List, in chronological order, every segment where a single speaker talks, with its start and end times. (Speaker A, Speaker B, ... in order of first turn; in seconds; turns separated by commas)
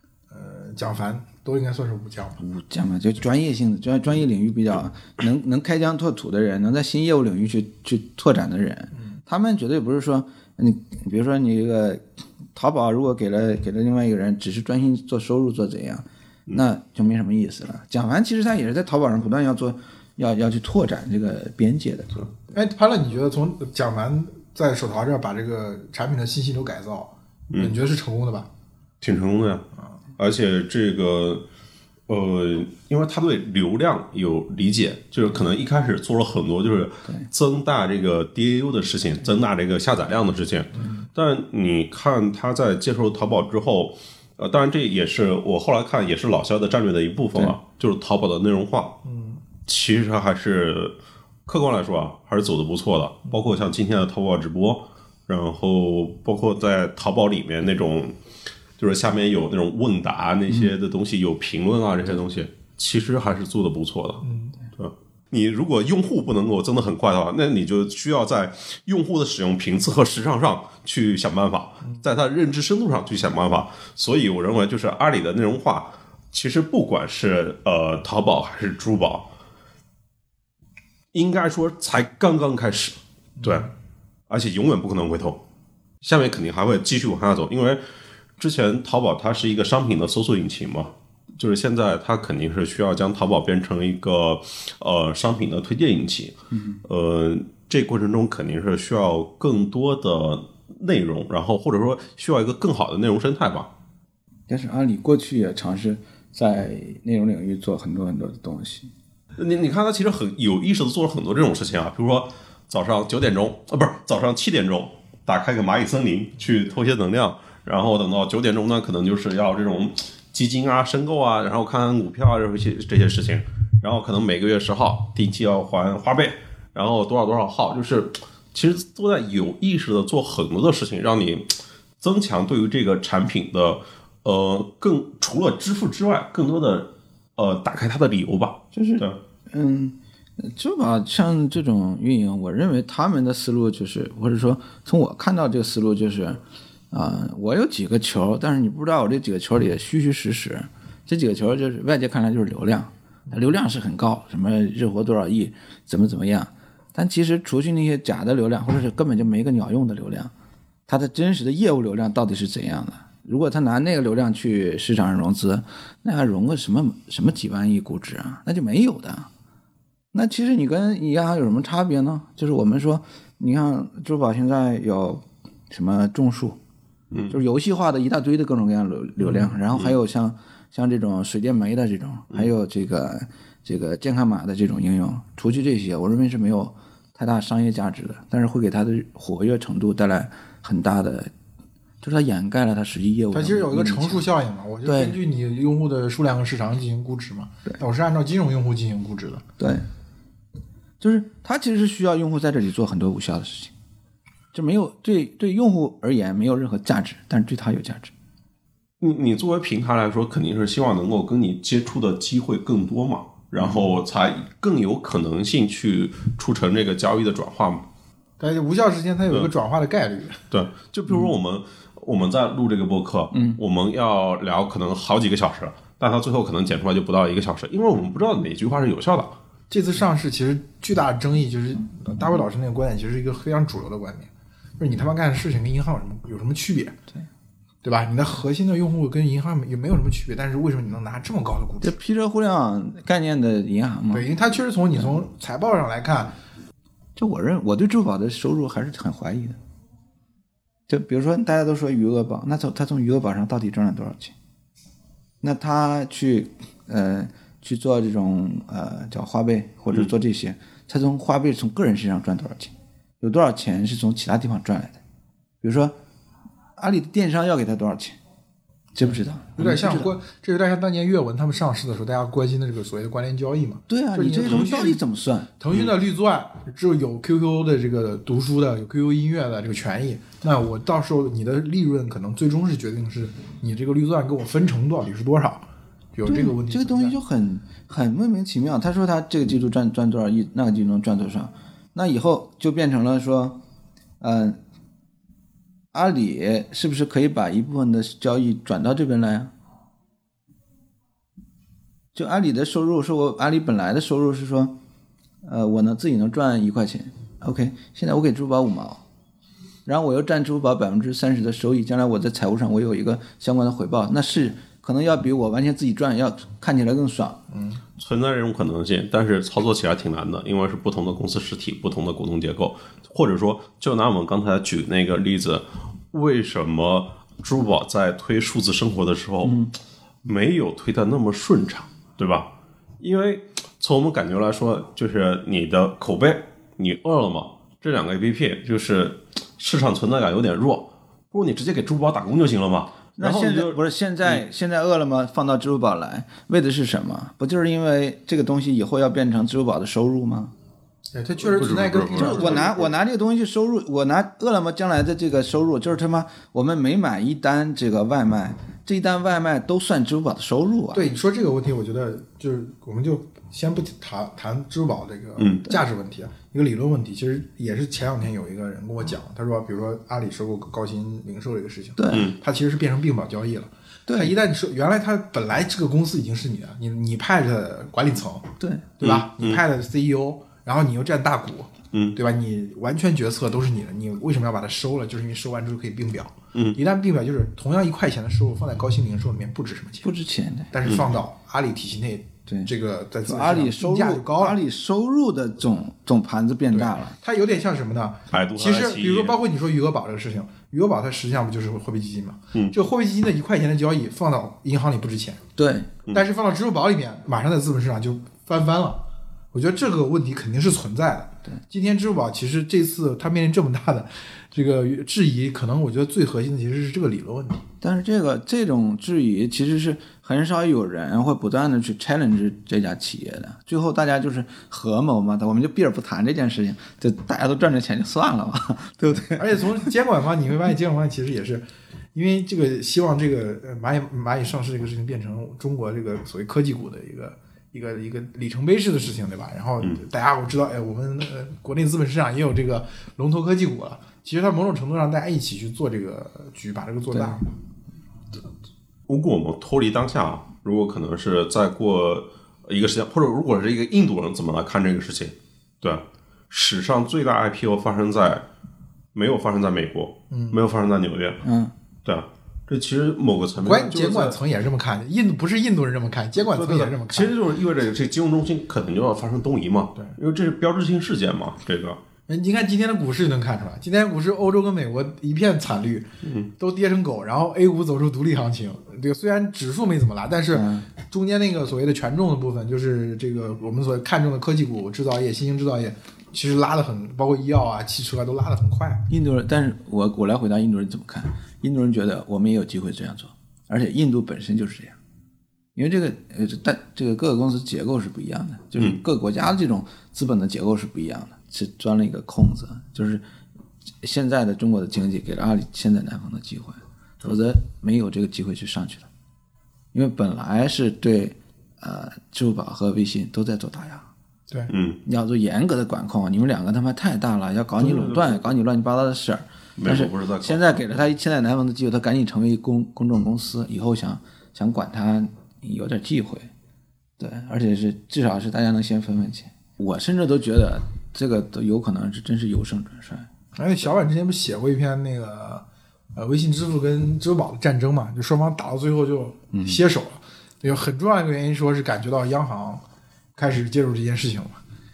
Speaker A: 0.3-2.4, Speaker B: 2.4-22.3, Speaker A: 22.5-28.5, Speaker C: 29.0-29.6, Speaker C: 30.2-31.4, Speaker C: 32.1-49.0, Speaker A: 40.8-41.1, Speaker A: 49.0-49.4, Speaker C: 49.6-58.2, Speaker C: 58.8-64.2, Speaker A: 64.2-64.6, Speaker C: 64.8-79.3, Speaker C: 81.1-83.7, Speaker C: 84.3-85.4, Speaker C: 86.0-87.8, Speaker C: 88.4-103.7, Speaker B: 96.5-96.8, Speaker B: 104.5-108.9, Speaker C: 109.4-139.2, Speaker B: 138.7-160.3, Speaker B: 160.9-169.3, Speaker B: 170.1-176.6, Speaker C: 177.1-177.4, Speaker B: 177.3-191.3, Speaker B: 192.0-194.3, Speaker A: 193.3-199.4, Speaker B: 194.8-195.2, Speaker B: 199.6-199.9, Speaker B: 201.0-203.7, Speaker B: 204.5-208.1, Speaker C: 209.0-217.9, Speaker A: 218.4-220.4, Speaker C: 220.5-229.4, Speaker B: 223.3-223.6, Speaker A: 229.7-237.0, Speaker A: 237.8-241.9, Speaker B: 241.8-244.3, Speaker A: 244.1-246.3, Speaker B: 247.2-249.6, Speaker B: 250.9-254.3, Speaker B: 255.4-265.0, Speaker B: 265.6-265.9, Speaker B: 266.8-268.2, Speaker B: 268.9-270.1, Speaker A: 269.1-275.0, Speaker B: 273.9-275.5, Speaker A: 275.6-287.2, Speaker B: 286.3-293.6, Speaker B: 294.2-294.6, Speaker B: 295.9-299.5, Speaker B: 302.1-304.7, Speaker B: 305.4-309.0, Speaker B: 309.9-317.4, Speaker A: 317.5-317.8, Speaker C: 318.0-329.7, Speaker B: 329.4-329.7, Speaker C: 330.2-344.4, Speaker B: 343.2-350.5, Speaker A: 351.1-352.8, Speaker C: 351.4-352.9, Speaker B: 352.1-361.0, Speaker A: 360.9-390.1, Speaker C: 365.4-365.7, Speaker B: 372.0-372.3, Speaker C: 372.1-372.4, Speaker B: 374.1-374.3, Speaker B: 378.6-378.9, Speaker C: 379.0-379.6, Speaker C: 381.9-382.2, Speaker B: 390.0-390.7, Speaker A: 390.7-394.6, Speaker B: 393.2-397.2, Speaker A: 396.7-405.4, Speaker C: 398.3-399.4, Speaker B: 405.6-405.9, Speaker A: 406.1-417.7, Speaker B: 417.8-429.6, Speaker A: 429.4-447.5, Speaker C: 449.1-458.5, Speaker C: 459.1-461.4, Speaker A: 460.3-460.6, Speaker B: 461.4-461.7, Speaker C: 462.1-464.4, Speaker A: 463.6-467.4, Speaker C: 466.4-472.0, Speaker A: 472.3-489.1, Speaker C: 476.2-476.5, Speaker B: 480.5-480.9, Speaker B: 489.1-495.0, Speaker B: 495.8-503.2, Speaker B: 504.0-509.1, Speaker B: 509.9-514.1, Speaker C: 514.7-515.0, Speaker B: 515.0-526.5, Speaker C: 517.8-518.4, Speaker C: 519.8-520.9, Speaker B: 527.2-533.3, Speaker A: 533.6-542.8, Speaker B: 539.5-539.8, Speaker A: 543.4-544.6